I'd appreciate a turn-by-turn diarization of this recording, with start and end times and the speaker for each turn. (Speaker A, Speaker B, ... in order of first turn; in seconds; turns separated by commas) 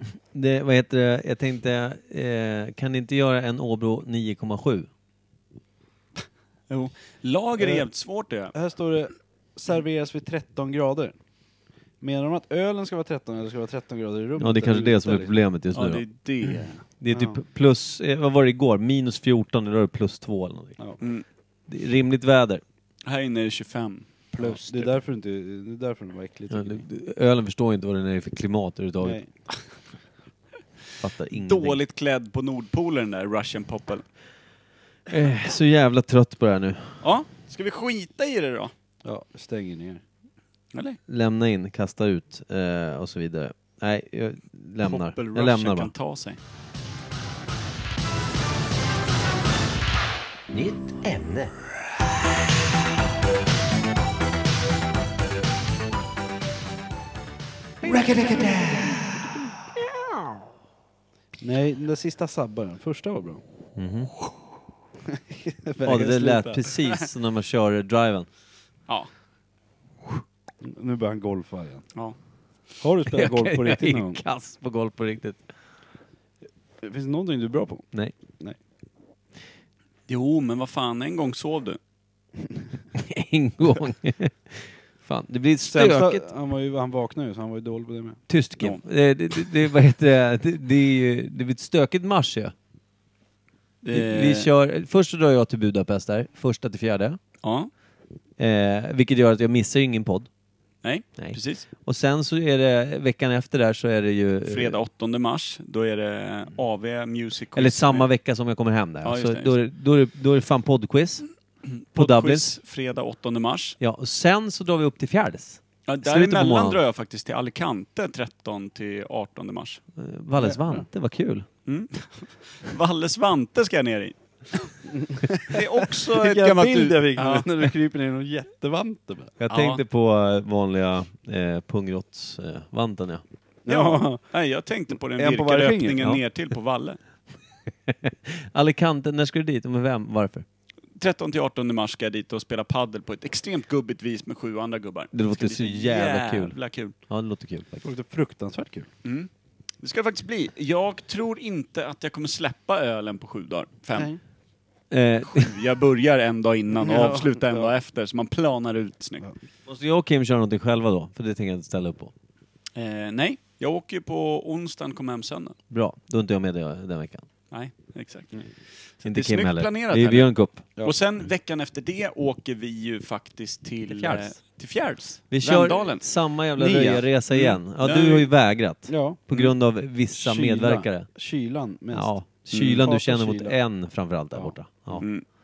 Speaker A: 0.3-4.9, Speaker B: 6.7-8.5, Speaker C: 7.6-7.9, Speaker C: 8.5-11.1, Speaker C: 12.0-15.3, Speaker A: 14.4-16.0, Speaker B: 15.7-16.8, Speaker A: 17.0-20.8, Speaker C: 17.1-17.4, Speaker B: 21.0-21.2, Speaker A: 21.7-22.6, Speaker B: 23.1-25.0, Speaker C: 24.4-26.8, Speaker A: 26.5-29.2, Speaker C: 29.0-29.3, Speaker A: 31.0-31.8, Speaker B: 31.3-34.0, Speaker A: 35.1-37.0, Speaker B: 37.0-38.7, Speaker C: 39.0-40.0, Speaker B: 40.7-41.0, Speaker A: 41.1-45.9, Speaker B: 44.8-46.4, Speaker A: 50.5-51.5, Speaker A: 57.9-58.5, Speaker C: 57.9-58.9, Speaker C: 61.4-63.4, Speaker A: 63.8-64.1, Speaker C: 65.1-67.0, Speaker A: 65.8-68.3, Speaker C: 70.6-71.9, Speaker C: 72.8-74.2, Speaker A: 73.0-75.4, Speaker C: 76.8-77.9, Speaker B: 80.1-81.8, Speaker A: 82.9-86.2, Speaker C: 85.7-88.2, Speaker A: 88.3-92.5, Speaker B: 93.8-94.5, Speaker A: 93.9-97.2, Speaker B: 97.4-97.7, Speaker A: 98.4-100.3, Speaker B: 100.8-101.7, Speaker A: 101.2-104.8, Speaker B: 104.5-108.1, Speaker A: 107.5-111.2, Speaker B: 109.0-109.5, Speaker B: 111.6-113.8, Speaker A: 111.9-112.5, Speaker A: 113.8-116.8, Speaker B: 115.9-119.8, Speaker A: 120.0-121.5, Speaker C: 120.4-120.8, Speaker B: 121.7-124.7, Speaker C: 124.9-129.3, Speaker B: 125.5-127.7, Speaker A: 129.4-133.2, Speaker B: 129.5-129.8, Speaker C: 133.7-134.2, Speaker B: 133.7-137.0, Speaker C: 135.2-136.2, Speaker A: 137.9-140.4, Speaker B: 141.0-146.9, Speaker A: 145.1-147.9, Speaker C: 147.8-148.9, Speaker B: 149.0-149.3, Speaker B: 149.8-154.1, Speaker C: 153.9-154.2, Speaker A: 154.9-155.6, Speaker B: 155.2-159.2, Speaker C: 156.8-157.7, Speaker A: 159.7-162.1, Speaker B: 162.8-165.6, Speaker A: 165.7-167.3, Speaker B: 167.5-168.4, Speaker B: 169.0-176.0, Speaker A: 169.0-170.7, Speaker A: 173.8-174.4, Speaker A: 175.3-181.1, Speaker C: 176.6-177.1, Speaker B: 177.3-178.3, Speaker C: 178.9-179.2, Speaker C: 180.1-183.6, Speaker A: 181.9-185.1, Speaker B: 182.5-182.8, Speaker C: 184.3-185.1, Speaker B: 185.0-185.2